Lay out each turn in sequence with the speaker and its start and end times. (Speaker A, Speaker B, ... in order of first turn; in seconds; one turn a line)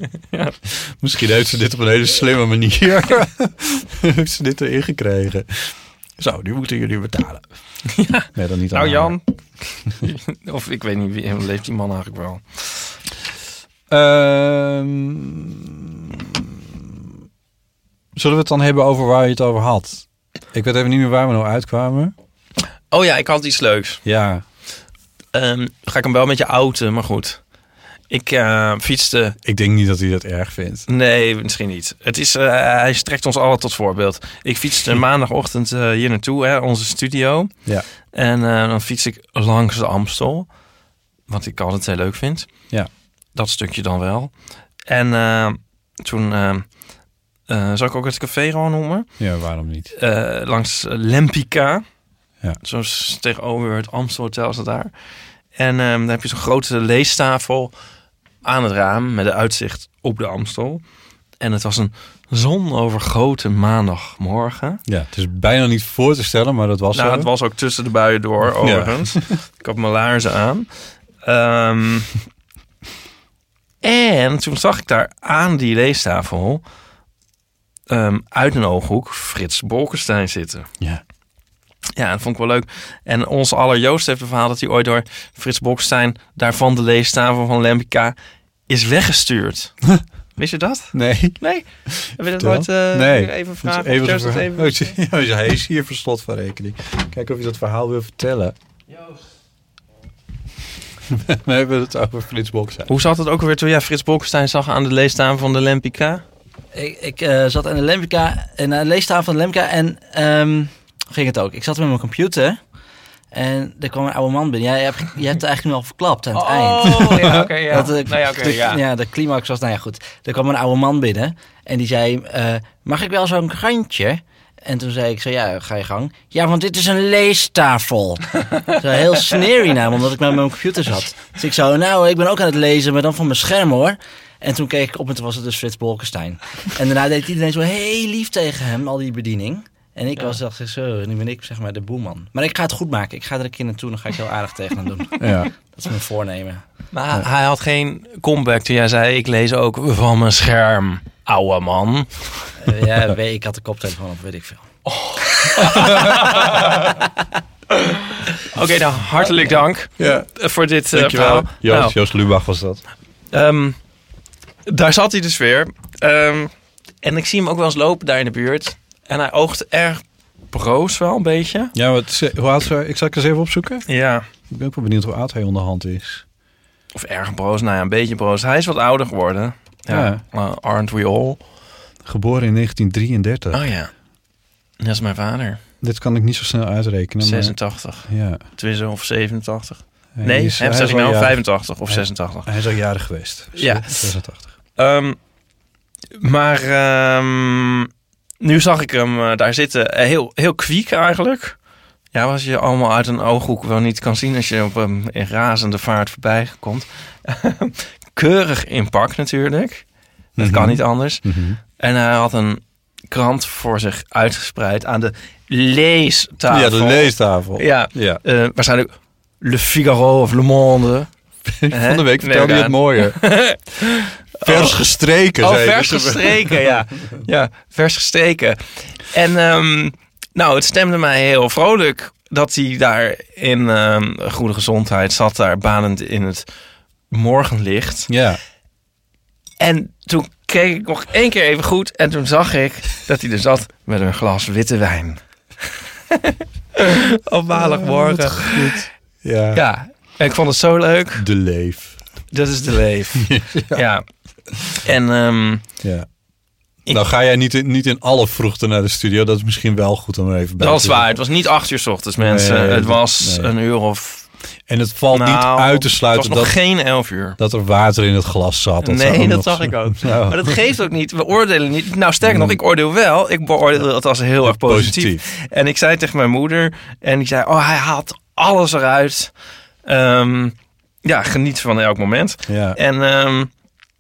Speaker A: 0.3-0.6
Speaker B: 0.7-7.4
Speaker A: 7.9-9.3
Speaker B: 8.3-9.2
Speaker A: 9.8-12.9
Speaker B: 13.9-17.0
Speaker B: 18.1-22.1
Speaker A: 22.9-24.0
Speaker B: 24.1-24.4
Speaker A: 25.3-27.4
Speaker A: 28.1-29.4
Speaker B: 29.4-30.9
Speaker A: 30.9-37.5
Speaker A: 38.1-40.5
Speaker A: 41.3-42.6
Speaker A: 43.3-44.3
Speaker A: 44.9-46.7
Speaker A: 47.5-49.1
Speaker B: 49.2-49.9
Speaker A: 49.9-51.8
Speaker A: 52.6-54.9
Speaker A: 55.5-57.7
Speaker A: 58.4-60.8
Speaker A: 61.4-64.8
Speaker B: 64.9-67.3
Speaker A: 66.9-70.7
Speaker B: 68.4-69.4
Speaker A: 71.2-72.1
Speaker A: 73.8-76.6
Speaker A: 77.9-80.7
Speaker A: 82.0-88.2
Speaker A: 88.7-89.8
Speaker A: 90.4-94.9
Speaker B: 90.9-98.5
Speaker B: 101.1-102.9
Speaker A: 102.9-106.2
Speaker C: 106.7-112.6
Speaker C: 113.3-146.6
Speaker A: 116.3-118.8
Speaker B: 117.0-117.5
Speaker B: 145.2-145.5
Speaker A: 146.9-152.1
Speaker C: 152.6-154.7
Speaker A: 154.9-156.9
Speaker B: 155.8-156.3
Speaker C: 155.8-156.9
Speaker A: 157.8-162.0
Speaker B: 160.0-160.3
Speaker B: 160.9-162.8
Speaker A: 163.3-163.8
Speaker A: 164.7-171.7
Speaker B: 171.8-173.9
Speaker A: 173.9-174.3
Speaker B: 174.5-176.2
Speaker A: 176.9-181.4
Speaker B: 179.9-180.2
Speaker B: 182.1-183.7
Speaker A: 183.5-183.9
Speaker A: 184.8-185.6
Speaker B: 185.8-188.4
Speaker A: 187.2-192.5
Speaker B: 190.2-194.5
Speaker A: 193.6-194.1
Speaker A: 194.8-195.2
Speaker A: 196.1-197.9
Speaker A: 198.4-201.6
Speaker A: 202.1-209.8
Speaker B: 210.4-211.6
Speaker A: 210.4-221.1
Speaker B: 216.5-218.2
Speaker B: 221.4-223.4
Speaker A: 221.7-224.8
Speaker B: 224.4-226.7
Speaker A: 225.4-236.5
Speaker A: 237.1-238.1
Speaker B: 238.1-238.4
Speaker A: 239.6-248.9
Speaker B: 247.5-249.6
Speaker A: 249.5-251.3
Speaker B: 251.2-252.0
Speaker A: 252.3-254.0
Speaker B: 253.2-253.8
Speaker A: 254.7-255.6
Speaker B: 255.8-256.1
Speaker B: 256.9-261.1
Speaker A: 260.6-264.3
Speaker B: 262.2-263.5
Speaker B: 264.7-266.6
Speaker A: 265.1-267.4
Speaker B: 267.4-270.6
Speaker A: 268.8-279.3
Speaker B: 272.2-272.6
Speaker B: 274.4-275.3
Speaker A: 279.9-283.5
Speaker B: 282.5-282.8